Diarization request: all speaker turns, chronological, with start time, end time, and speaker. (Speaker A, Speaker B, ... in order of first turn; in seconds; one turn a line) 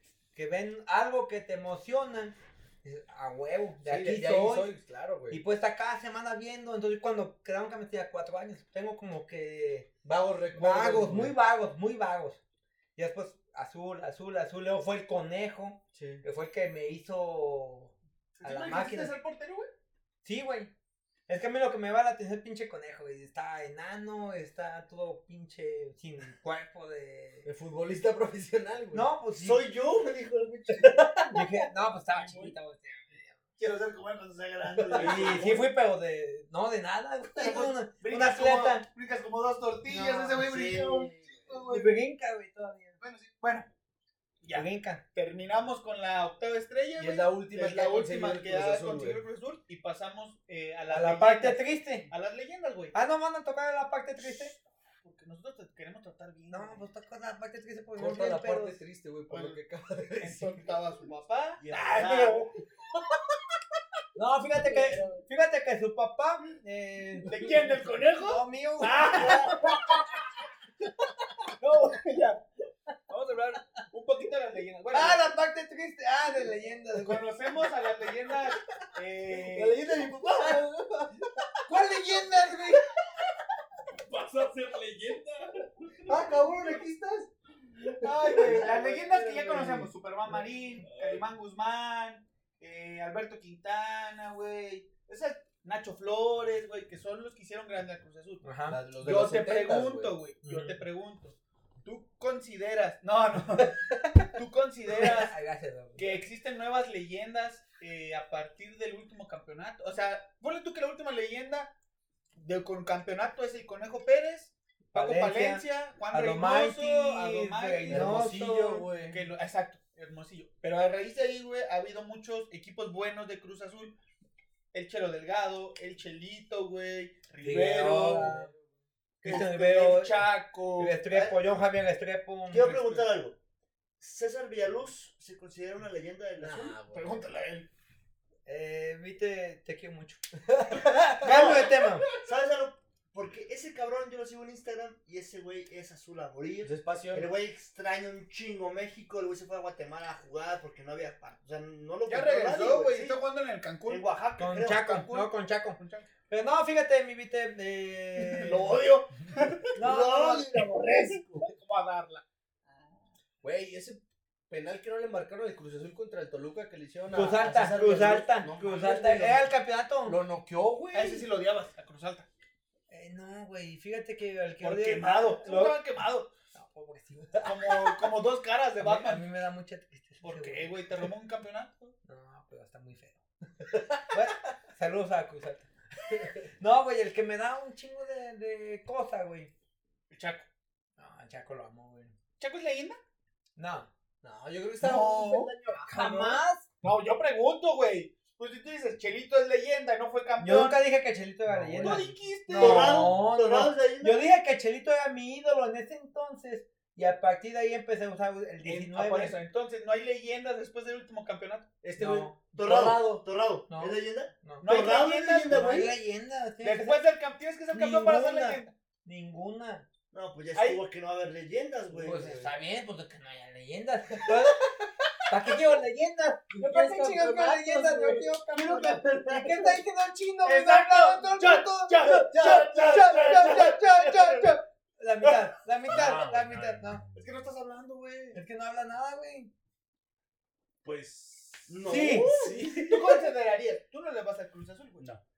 Speaker A: 0.3-4.7
Speaker B: 3.9-5.4
Speaker A: 5.3-9.9
Speaker B: 10.0-11.3
Speaker A: 10.5-12.4
Speaker A: 13.0-19.1
Speaker B: 15.9-16.2
Speaker C: 18.4-19.7
Speaker A: 20.2-20.7
Speaker A: 21.3-27.5
Speaker B: 27.4-29.1
Speaker A: 28.9-29.6
Speaker D: 29.3-31.1
Speaker B: 30.8-31.4
Speaker A: 31.3-33.4
Speaker D: 33.6-35.7
Speaker B: 34.7-35.5
Speaker C: 34.9-35.5
Speaker A: 35.0-38.9
Speaker C: 37.4-41.9
Speaker A: 39.9-40.4
Speaker B: 40.4-41.8
Speaker A: 41.7-42.9
Speaker C: 43.0-43.7
Speaker C: 44.4-53.0
Speaker A: 44.5-45.0
Speaker B: 47.0-49.2
Speaker A: 50.9-52.1
Speaker A: 52.9-54.5
Speaker C: 54.2-56.8
Speaker A: 56.5-58.8
Speaker B: 58.0-60.7
Speaker C: 59.3-59.6
Speaker C: 60.2-62.5
Speaker D: 61.6-62.5
Speaker A: 64.2-67.4
Speaker C: 67.2-70.0
Speaker A: 68.1-70.1
Speaker D: 69.2-69.5
Speaker A: 71.0-71.3
Speaker C: 71.6-72.4
Speaker A: 73.1-73.6
Speaker C: 73.5-75.3
Speaker A: 74.9-77.3
Speaker C: 77.0-79.9
Speaker B: 79.3-81.3
Speaker A: 81.7-82.8
Speaker B: 82.4-82.8
Speaker E: 83.9-86.1
Speaker B: 86.1-89.9
Speaker C: 88.0-98.5
Speaker E: 90.8-91.3
Speaker A: 98.4-98.8
Speaker B: 98.7-100.2
Speaker C: 99.0-105.4
Speaker A: 100.4-100.8
Speaker A: 105.0-106.2
Speaker C: 106.0-111.7
Speaker C: 112.4-118.3
Speaker A: 114.9-119.1
Speaker B: 117.9-119.2
Speaker C: 119.1-124.0
Speaker C: 124.7-128.4
Speaker A: 127.4-128.5
Speaker B: 128.1-128.6
Speaker A: 129.2-130.2
Speaker C: 129.2-131.0
Speaker A: 130.8-133.1
Speaker D: 132.5-133.4
Speaker D: 134.0-136.8
Speaker B: 136.4-137.2
Speaker C: 136.9-137.7
Speaker A: 138.5-140.2
Speaker B: 140.5-141.6
Speaker A: 141.2-142.1
Speaker D: 141.2-141.7
Speaker D: 142.2-153.2
Speaker B: 146.6-147.3
Speaker C: 152.1-156.1
Speaker D: 153.9-154.8
Speaker A: 154.4-158.8
Speaker C: 158.2-159.7
Speaker A: 159.8-160.7
Speaker D: 159.8-161.5
Speaker C: 161.2-163.0
Speaker B: 163.4-169.5
Speaker A: 167.1-170.2
Speaker B: 170.1-171.3
Speaker C: 170.9-172.3
Speaker A: 172.9-175.8
Speaker C: 174.6-176.3
Speaker A: 176.5-177.6
Speaker C: 177.4-179.2
Speaker A: 178.8-180.8
Speaker C: 180.2-181.9
Speaker A: 182.1-185.7
Speaker B: 186.1-186.4
Speaker A: 186.6-189.5
Speaker C: 190.1-190.5
Speaker A: 191.0-192.1
Speaker C: 192.4-193.0
Speaker A: 193.6-193.9
Speaker B: 194.2-196.4
Speaker C: 194.8-195.5
Speaker A: 195.9-196.7
Speaker C: 196.8-200.8
Speaker A: 200.4-209.4
Speaker B: 201.5-202.1
Speaker C: 201.8-203.1
Speaker D: 202.5-204.3
Speaker C: 208.6-211.7
Speaker B: 211.8-213.2
Speaker A: 212.0-212.4
Speaker D: 212.5-215.9
Speaker A: 213.7-214.7
Speaker C: 214.6-215.9
Speaker A: 215.5-217.0
Speaker C: 216.6-218.7
Speaker A: 217.7-219.9
Speaker D: 220.1-222.5
Speaker C: 220.6-220.8
Speaker A: 221.9-224.7
Speaker A: 225.3-237.0
Speaker B: 226.5-228.3
Speaker D: 228.5-229.8
Speaker C: 230.4-232.6
Speaker B: 232.1-233.4
Speaker D: 232.2-234.4
Speaker E: 235.9-237.3
Speaker C: 237.2-238.4
Speaker A: 238.3-239.5
Speaker E: 240.8-242.0
Speaker D: 241.7-243.0
Speaker A: 241.9-242.3
Speaker B: 242.2-243.0
Speaker C: 242.4-245.1